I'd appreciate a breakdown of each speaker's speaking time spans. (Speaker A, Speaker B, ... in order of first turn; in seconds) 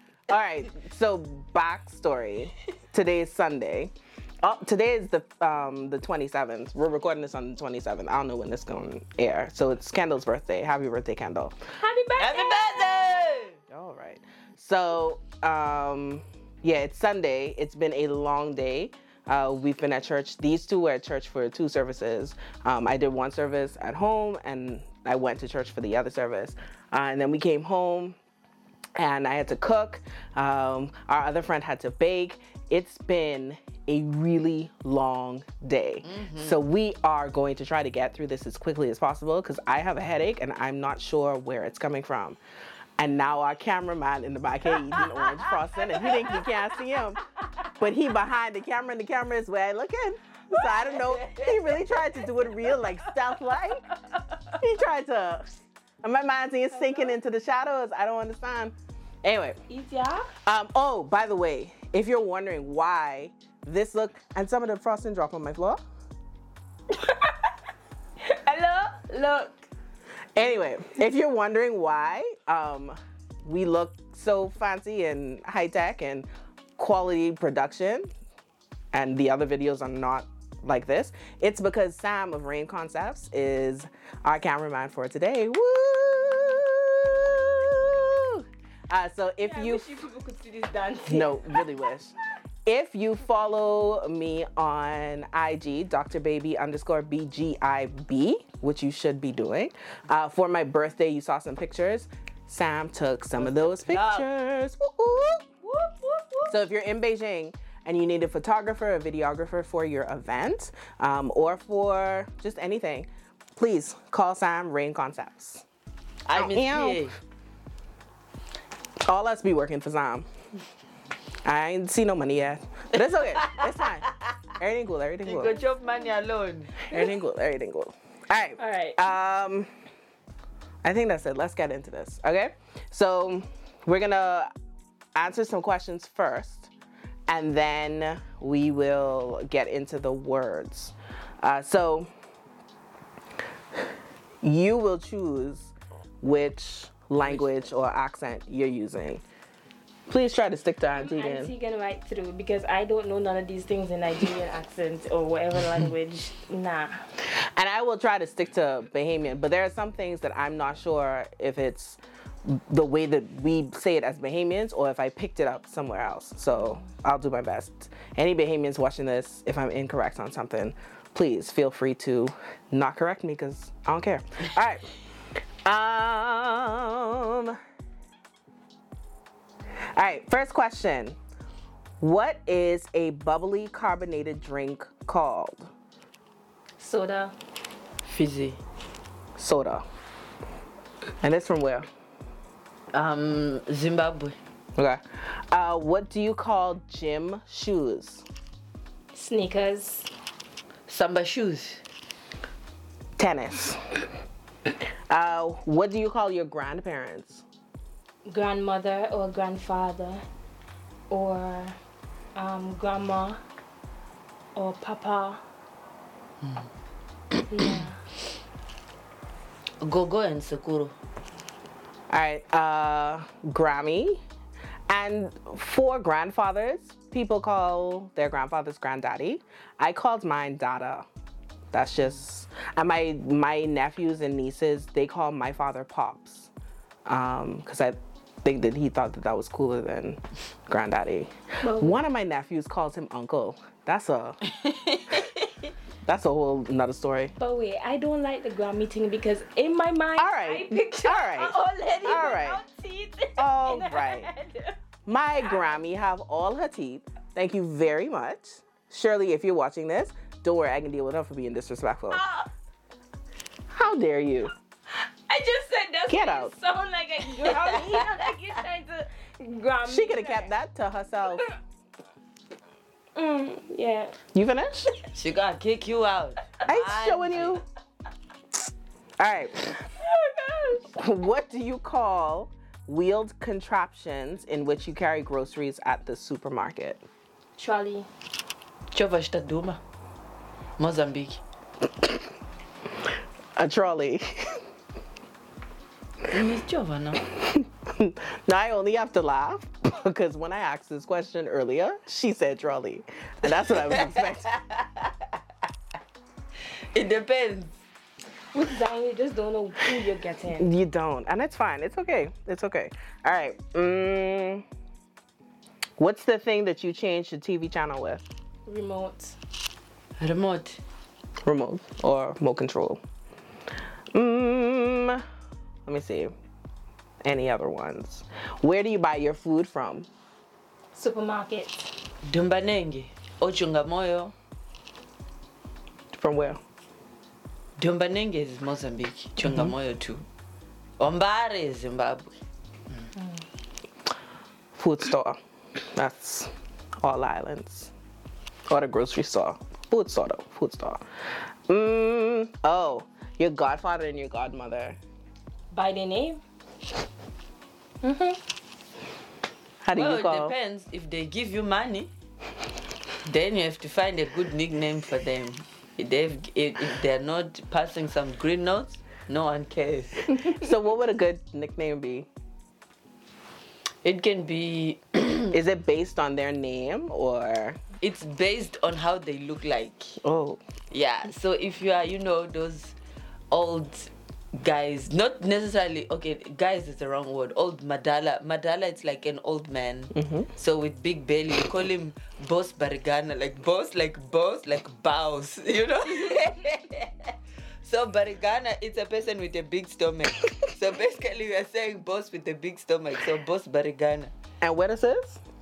Speaker A: 0.3-11.6, 13.7-28.2, 29.0-42.4, 43.0-47.2, 47.8-53.9, 54.6-59.6, 60.5-65.8, 70.4-78.1, 78.9-90.0, 91.1-92.1, 92.7-105.5, 106.5-115.7, 116.3-117.2, 119.1-120.3, 121.5-125.5, 126.8-129.7, 130.8-134.5, 135.2-136.7, 137.3-142.1, 144.4-149.2, 150.1-151.5, 157.2-174.9, 175.7-177.6, 179.9-181.2, 182.0-185.7, 189.4-189.8, 191.2-191.9, 194.8-198.2, 203.2-204.0, 205.1-207.4, 222.1-224.2, 224.9-231.1, 231.7-236.5, 237.1-244.4, 246.1-247.3, 250.2-252.6, 253.4-254.3, 255.1-262.2, 263.7-264.5, 266.1-266.5, 269.9-271.5, 274.3-274.9, 276.6-277.6, 279.2-279.9, 280.9-287.0, 293.6-294.6, 297.5-304.5, 310.6-314.6, 316.0-318.2, 321.4-323.0, 324.1-325.2, 325.9-326.3, 327.2-330.1, 336.1-336.6, 344.8-345.4, 345.9-347.9, 348.7-351.0, 351.7-355.0, 359.8-360.6, 370.4-372.3, 375.5-377.8, 380.2-380.6, 390.1-390.5, 404.6-405.4
Speaker B: 11.8-13.4, 56.8-57.1, 59.7-60.3, 66.9-67.5, 68.2-69.7, 89.4-91.7, 125.5-126.0, 128.6-129.0, 151.0-157.0, 166.5-166.8, 186.8-187.3, 199.1-200.1, 208.3-210.2, 211.1-211.8, 212.3-213.4, 214.6-215.4, 217.5-218.0, 241.6-242.0, 247.4-254.8, 262.1-262.5, 264.9-270.5, 273.1-274.2, 280.0-280.9, 287.6-288.1, 308.5-310.7, 318.7-319.4, 330.9-331.9, 343.2-343.4, 355.7-356.4, 358.0-358.4
Speaker C: 12.2-13.6, 36.0-36.6, 50.8-51.8, 103.3-104.3, 105.6-106.5, 116.3-117.2, 123.1-124.3, 125.2-126.9, 188.1-188.6, 192.9-194.4, 200.9-201.8, 219.8-220.9, 244.5-245.7, 267.5-268.1, 275.1-277.6, 288.9-289.8, 290.8-291.4, 296.3-297.2, 303.6-305.4, 306.9-307.7, 320.2-320.8, 332.2-334.3, 337.8-340.3, 341.0-342.4, 359.9-362.1, 363.2-370.4, 374.0-375.6, 378.0-380.2, 380.9-382.9, 383.5-404.3